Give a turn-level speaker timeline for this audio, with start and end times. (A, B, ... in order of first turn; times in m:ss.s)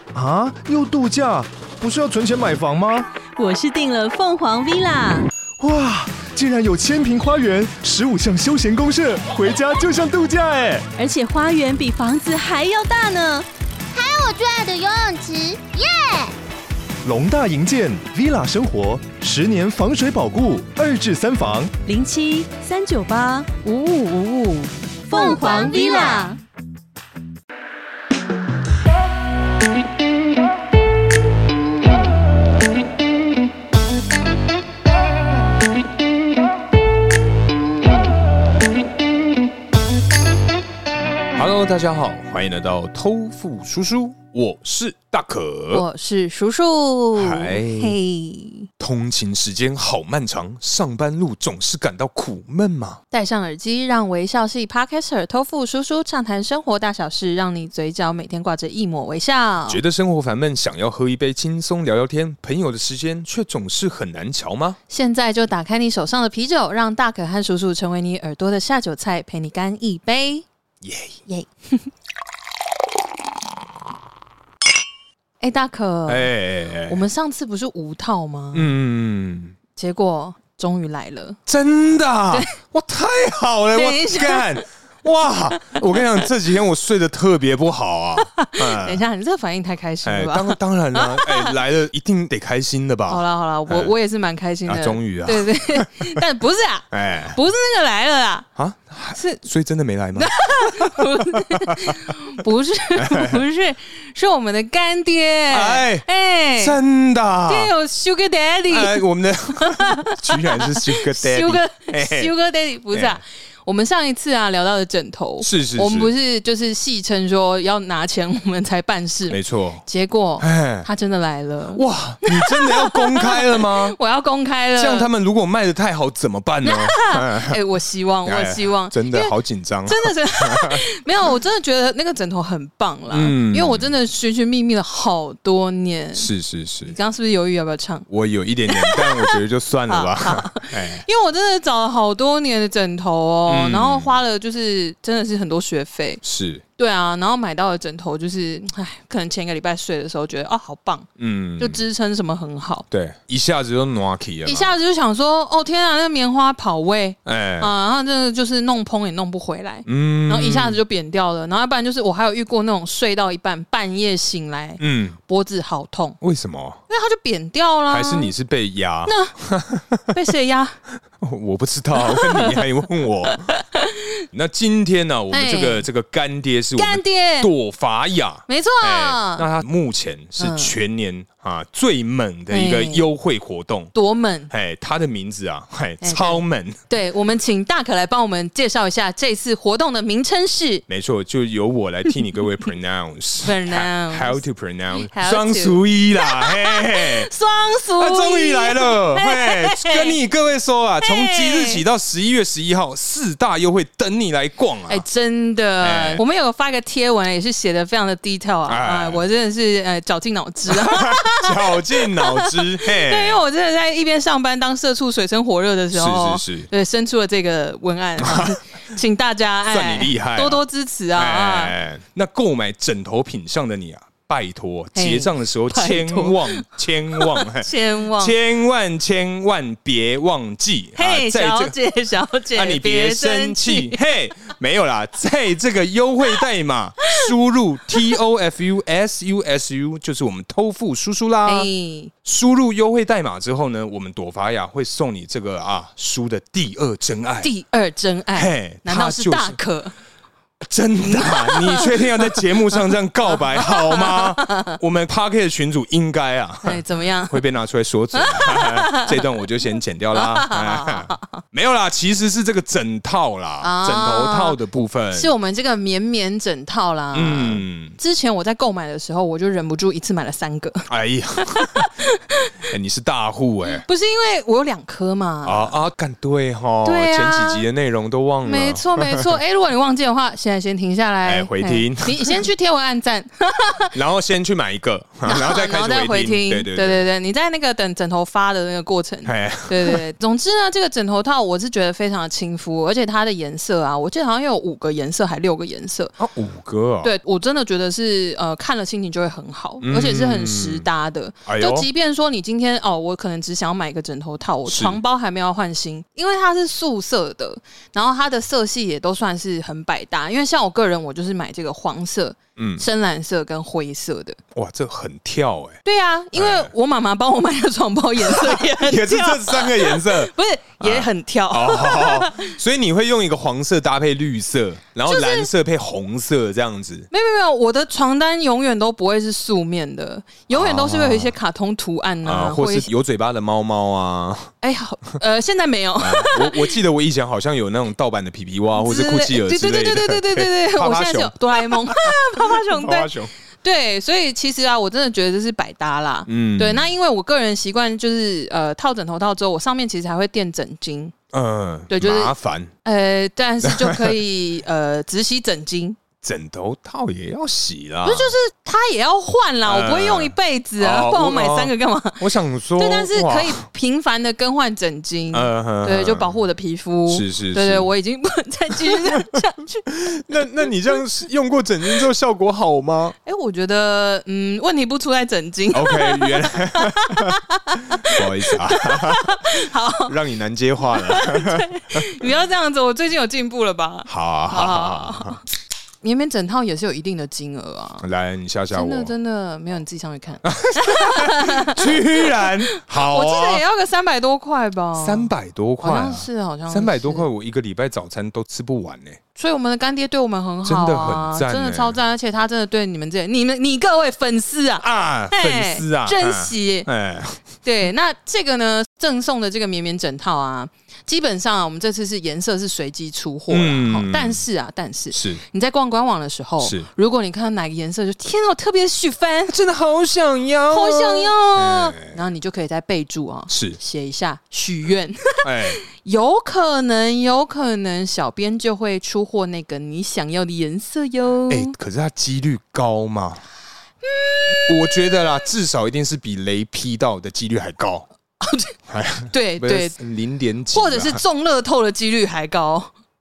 0:00.1-0:03.1 A
0:03.4-0:05.3 B
0:05.6-0:10.9 A
0:11.0-0:13.5 B
0:13.9-0:16.3 C
0:17.0-0:21.7 A
0:21.9-0:23.6 B
0:23.6-0:24.7 D
0:25.1-0:26.4 B
0:25.1-0:26.4 C
0:41.4-0:45.8 E
0:45.7-0:48.7 D
0:47.2-0:48.0 E
0:48.8-0:53.0 E
0:53.1-0:59.8 D
0:59.7-1:04.8 E
1:04.9-1:10.5 D
1:10.8-1:11.2 E
1:11.3-1:11.9 D
1:15.4-1:16.3 D
1:16.1-1:17.0 E
1:16.9-1:18.8 D
1:18.5-1:19.6 E
1:19.8-1:21.4 D
1:21.5-1:29.0 E
1:23.7-1:24.6 D
1:25.6-1:26.0 D
1:28.2-1:31.5 D
1:30.0-1:33.9 E
1:33.1-1:38.5 D
1:34.7-1:36.2 E
1:36.9-1:37.4 E
1:38.6-1:42.1 E
1:39.2-1:39.4 D
1:40.2-1:46.8 D
1:43.0-1:43.4 E
1:45.5-1:46.1 E
1:46.6-1:47.7 E
1:47.5-1:49.0 D
1:48.7-1:52.3 E
1:49.6-2:05.1 D
1:52.9-1:53.2 E
1:55.4-1:56.1 E
1:59.3-1:59.8 E
2:00.4-2:00.9 E
2:01.7-2:04.0 E
2:04.8-2:07.6 E
2:06.6-2:16.3 D
2:08.2-2:10.8 E
2:13.1-2:13.9 E
2:16.2-2:17.0 E
2:16.8-2:18.1 D
2:18.1-2:21.0 E
2:18.7-2:19.4 D
2:19.9-2:26.2 D
2:23.5-2:24.1 E
2:26.2-2:26.6 E
2:26.8-2:32.9 D
2:31.2-2:31.8 E
2:32.9-2:34.7 E
2:34.4-2:46.2 D
2:37.2-2:37.7 E
2:39.9-2:40.8 E
2:44.8-2:45.2 E
2:46.2-2:46.8 E
2:46.9-2:48.3 D
2:47.9-2:50.1 E
2:49.1-2:49.4 D
2:50.1-2:50.8 D
2:51.2-2:53.5 E
2:52.0-2:52.6 D
2:53.3-2:54.0 D
2:54.3-3:03.9 E
2:55.3-2:55.9 D
2:56.8-2:57.5 D
2:58.5-2:59.5 D
3:00.4-3:00.8 D
3:02.5-3:03.1 D
3:03.9-3:04.5 D
3:04.5-3:06.8 E
3:06.0-3:10.8 D
3:10.9-3:17.3 E
3:13.4-3:14.4 D
3:14.9-3:20.2 D
3:18.0-3:25.0 E
3:21.0-3:21.8 D
3:24.9-3:41.8 D
3:25.8-3:26.2 E
3:28.7-3:29.2 E
3:30.7-3:33.4 E
3:35.9-3:36.7 E
3:38.2-3:38.6 E
3:39.7-3:40.6 E
3:41.2-3:51.7 E
3:44.9-3:48.4 D
3:51.0-3:54.0 D
3:52.5-4:01.7 E
4:01.4-4:02.1 D
4:02.2-4:07.5 E
4:07.4-4:10.0 D
4:08.4-4:09.6 E
4:10.6-4:25.3 E
4:11.0-4:12.4 D
4:13.5-4:14.8 D
4:16.6-4:17.4 D
4:18.1-4:19.2 D
4:20.1-4:21.4 D
4:23.6-4:24.6 D
4:25.1-4:30.9 D
4:27.1-4:28.0 E
4:30.9-4:31.9 E
4:31.4-4:32.5 D
4:32.7-4:33.8 E
4:33.7-4:35.7 D
4:35.4-4:39.3 E
4:36.8-4:37.6 D
4:38.4-4:44.0 D
4:41.2-4:42.4 E
4:43.9-4:47.1 E
4:45.2-4:56.2 D
4:49.3-4:50.0 E
4:56.2-4:57.2 E
4:57.0-5:14.4 D
4:59.8-5:00.9 E
5:01.5-5:01.9 E
5:04.7-5:05.0 E
5:12.6-5:12.8 E
5:14.5-5:15.8 E
5:15.8-5:22.6 D
5:16.4-5:16.7 E
5:18.2-5:27.1 E
5:25.1-5:25.5 D
5:27.1-5:32.9 D
5:30.5-5:31.4 E
5:32.2-5:34.5 E
5:34.6-5:36.7 D
5:36.0-5:43.3 E
5:38.8-5:43.1 D
5:43.6-5:51.1 D
5:46.3-5:46.9 E
5:51.3-5:52.7 E
5:51.9-5:56.0 D
5:53.6-5:54.2 E
5:56.2-5:58.3 E
5:58.0-6:02.2 D
5:59.6-6:03.6 E
6:02.8-6:09.9 D
6:05.3-6:06.3 E
6:07.1-6:07.9 E
6:08.8-6:09.4 E
6:09.9-6:13.2 E
6:13.2-6:20.1 D
6:15.7-6:17.4 E
6:18.0-6:19.4 E
6:20.1-6:22.3 E
6:20.9-6:25.4 D
6:24.1-6:25.4 E
6:26.0-6:28.1 D
6:28.0-6:29.1 E
6:28.7-6:37.3 D
6:30.4-6:33.6 E
6:35.0-6:39.2 E
6:39.4-6:46.9 D
6:40.6-6:42.0 E
6:44.8-6:47.4 E
6:47.6-6:59.6 D
6:53.5-6:54.4 E
6:55.1-6:55.4 E
6:56.6-6:56.9 E
6:59.5-7:02.0 E
7:00.7-7:11.7 D
7:03.5-7:03.8 E
7:05.4-7:05.8 E
7:11.5-7:13.4 E
7:14.0-7:15.2 D
7:14.7-7:18.1 E
7:18.4-7:18.7 D
7:18.9-7:21.2 E
7:19.3-7:20.0 D
7:20.7-7:22.9 D